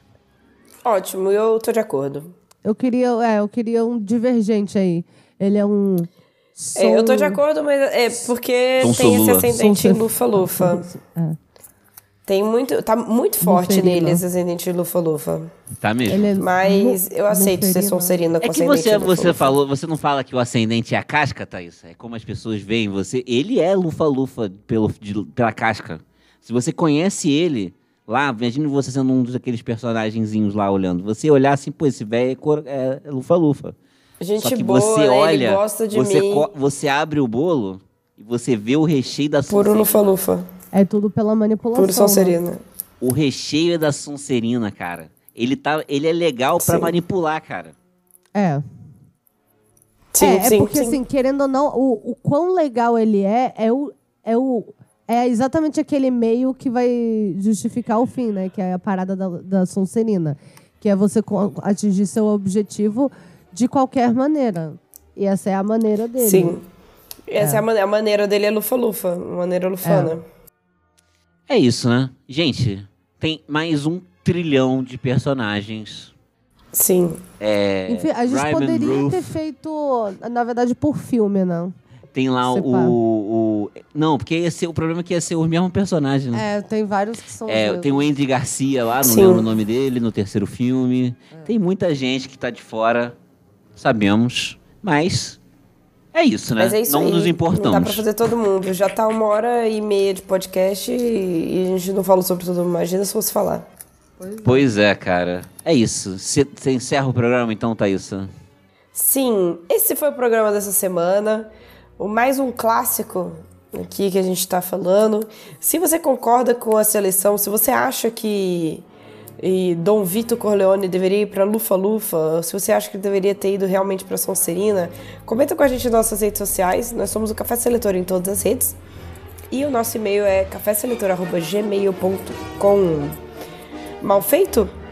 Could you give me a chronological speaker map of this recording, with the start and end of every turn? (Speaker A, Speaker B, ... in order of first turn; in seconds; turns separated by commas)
Speaker A: 0.8-2.3, Speaker B: 2.6-7.4, Speaker A: 6.7-10.8, Speaker C: 8.8-9.6, Speaker B: 9.5-11.4, Speaker A: 12.2-15.5, Speaker B: 13.4-14.2, Speaker C: 15.8-16.4, Speaker B: 16.1-18.1, Speaker A: 16.4-19.6, Speaker C: 18.4-33.8, Speaker A: 34.2-36.5, Speaker C: 34.4-40.0, Speaker A: 39.5-40.5, Speaker B: 40.7-42.4, Speaker A: 41.7-42.6, Speaker C: 43.0-47.8, Speaker A: 46.6-46.9, Speaker B: 48.3-48.6, Speaker A: 50.1-51.0, Speaker B: 50.2-66.6, Speaker A: 66.2-66.6, Speaker A: 67.3-70.2, Speaker B: 67.4-67.6, Speaker B: 69.8-70.2, Speaker C: 71.5-76.1, Speaker A: 76.7-77.2, Speaker C: 77.4-79.3, Speaker B: 77.9-81.7, Speaker C: 82.1-86.4, Speaker B: 82.4-83.0, Speaker B: 86.3-88.1, Speaker C: 87.5-93.2, Speaker A: 89.0-89.4, Speaker C: 93.8-95.4, Speaker C: 96.1-98.0, Speaker A: 96.6-103.7, Speaker B: 104.2-104.7, Speaker C: 104.4-108.3, Speaker A: 108.9-118.8, Speaker A: 119.4-128.8, Speaker A: 129.5-133.2, Speaker A: 134.0-134.7